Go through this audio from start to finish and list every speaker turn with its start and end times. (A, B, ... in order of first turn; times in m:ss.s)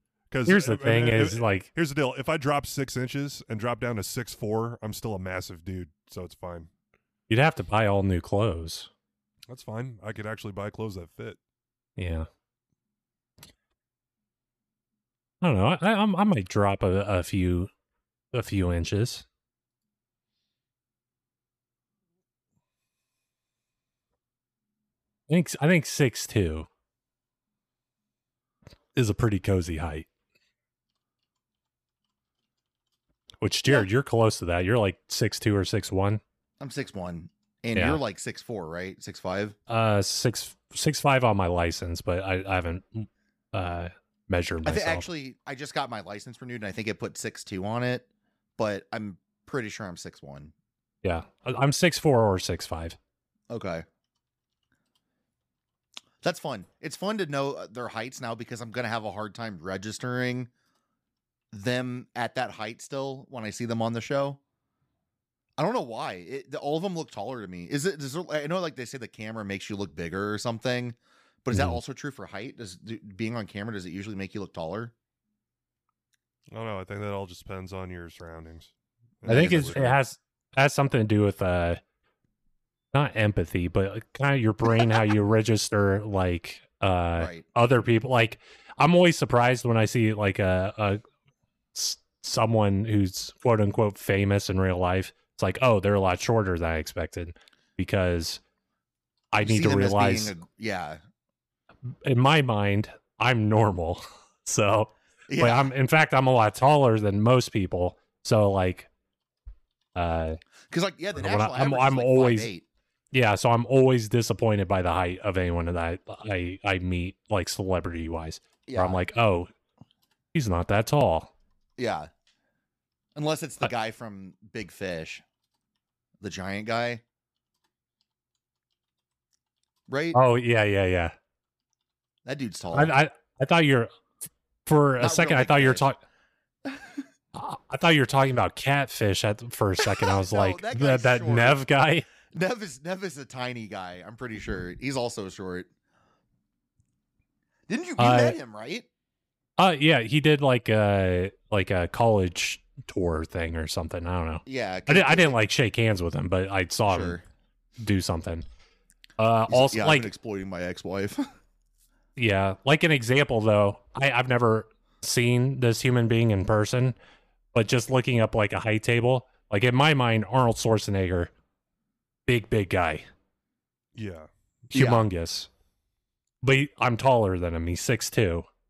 0:00.3-0:06.7 A
0:00.5-0:01.7 B
0:07.3-0:08.9 B
0:09.5-0:11.4 A
0:12.0-0:12.3 B
0:15.4-0:17.7 B
0:18.3-0:19.2 B
0:25.3-0:26.7 B
0:29.0-0:30.1 B
0:33.4-0:36.2 B
0:36.6-0:39.6 C
0:37.8-0:38.0 B
0:39.7-0:45.1 B
0:44.6-0:50.5 C
0:51.0-0:53.0 B
0:53.5-0:53.8 C
0:56.2-1:00.5 C
1:01.5-1:04.4 C
1:05.6-1:14.9 C
1:11.5-1:11.8 B
1:16.5-1:20.0 A
1:19.2-1:19.9 C
1:19.3-1:21.8 B
1:22.9-1:31.0 B
1:27.2-1:27.5 C
1:31.7-1:38.4 B
1:39.3-1:40.4 B
1:39.4-1:41.0 C
1:41.9-1:48.9 B
1:45.3-1:45.7 C
1:50.0-1:50.4 B
1:50.7-1:52.7 C
1:51.1-1:52.5 B
1:53.1-1:59.5 B
1:58.7-1:59.0 C
2:00.3-2:01.3 B
2:01.8-2:02.1 C
2:03.2-2:05.2 C
2:06.2-2:07.0 C
2:09.9-2:10.2 C
2:10.1-2:11.2 B
2:12.2-2:13.0 C
2:12.7-2:13.9 B
2:14.7-2:16.0 B
2:15.0-2:15.8 C
2:16.7-2:17.0 C
2:17.3-2:22.1 B
2:20.0-2:21.6 C
2:22.3-2:25.7 C
2:27.7-2:28.9 C
2:28.0-2:28.4 B
2:29.6-2:37.2 B
2:34.5-2:35.3 C
2:36.9-2:37.2 C
2:37.8-2:38.5 B
2:39.2-2:40.1 B
2:39.5-2:41.2 C
2:42.2-2:47.0 B
2:47.5-2:51.3 B
2:52.3-2:53.1 B
2:54.0-2:54.3 A
2:54.7-2:55.0 C
2:54.7-2:55.5 B
2:56.4-2:58.5 B